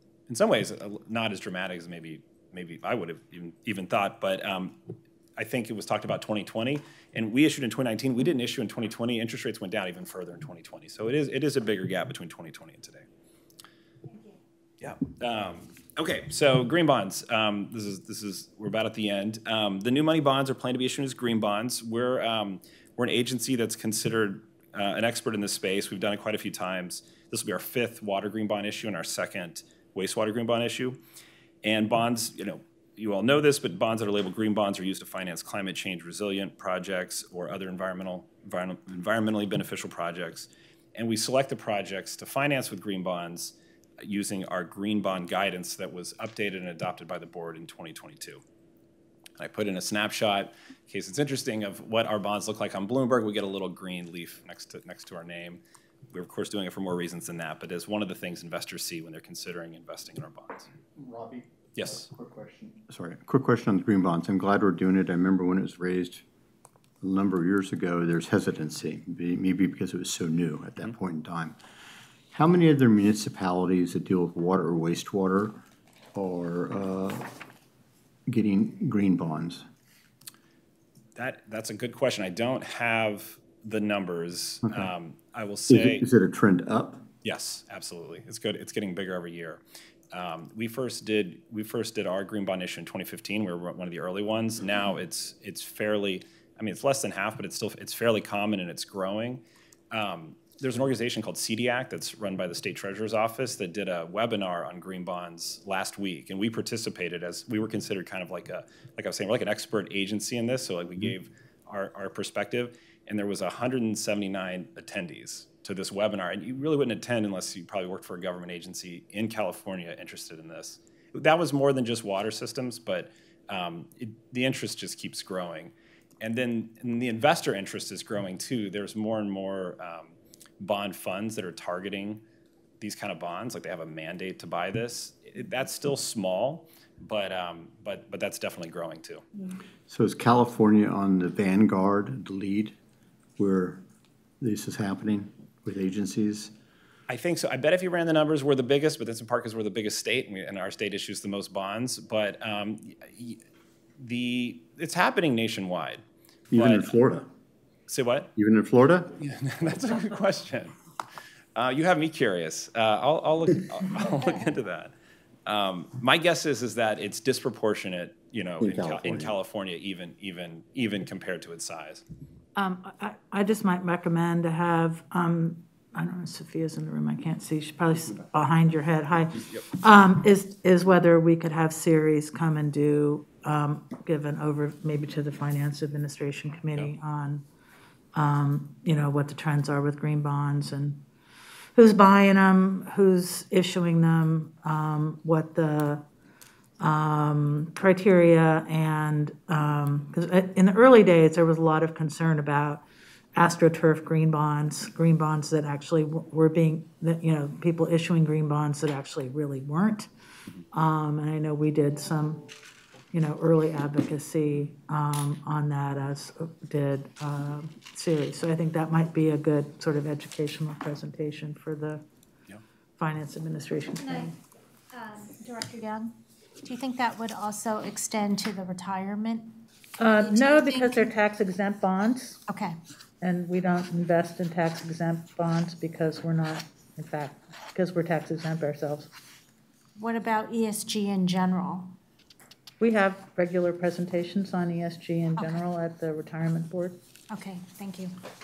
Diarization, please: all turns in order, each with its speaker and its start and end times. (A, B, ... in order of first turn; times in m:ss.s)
0:00.3-0:04.8 A
0:05.4-0:13.0 A
0:14.8-0:31.0 A
0:31.6-0:48.4 A
0:49.4-0:55.6 A
0:56.1-1:00.7 A
1:01.0-1:06.2 B
1:01.8-1:02.1 A
1:07.0-1:11.6 B
1:12.3-1:15.6 B
1:16.2-1:17.3 B
1:18.3-1:19.6 B
1:21.2-1:26.1 A
1:24.6-1:24.9 B
1:25.7-1:27.1 B
1:27.2-1:29.6 A
1:30.1-2:12.2 A
2:12.8-2:19.2 A
2:19.9-2:22.8 B
2:23.4-2:23.8 B
2:24.4-2:26.5 B
2:27.1-2:33.4 A
2:34.0-2:36.0 A
2:36.5-2:37.3 B
2:36.5-2:37.0 A
2:37.9-2:38.3 A
2:38.4-2:39.1 B
2:39.2-2:40.7 A
2:41.6-2:44.9 A
2:45.5-2:52.0 A
2:48.6-2:49.4 B
2:52.6-3:07.5 C
3:08.1-3:11.0 C
3:11.8-3:16.0 C
3:16.8-3:30.1 C
3:30.7-3:32.5 C
3:33.1-3:42.0 C
3:43.0-3:44.3 C
3:44.0-3:44.4 D
3:44.9-3:49.6 D
3:50.0-3:52.4 C
3:50.2-3:51.1 D
3:52.5-3:52.8 D
3:53.2-3:59.1 C
4:00.0-4:02.0 D
4:02.8-4:07.0 C
4:07.3-4:08.2 D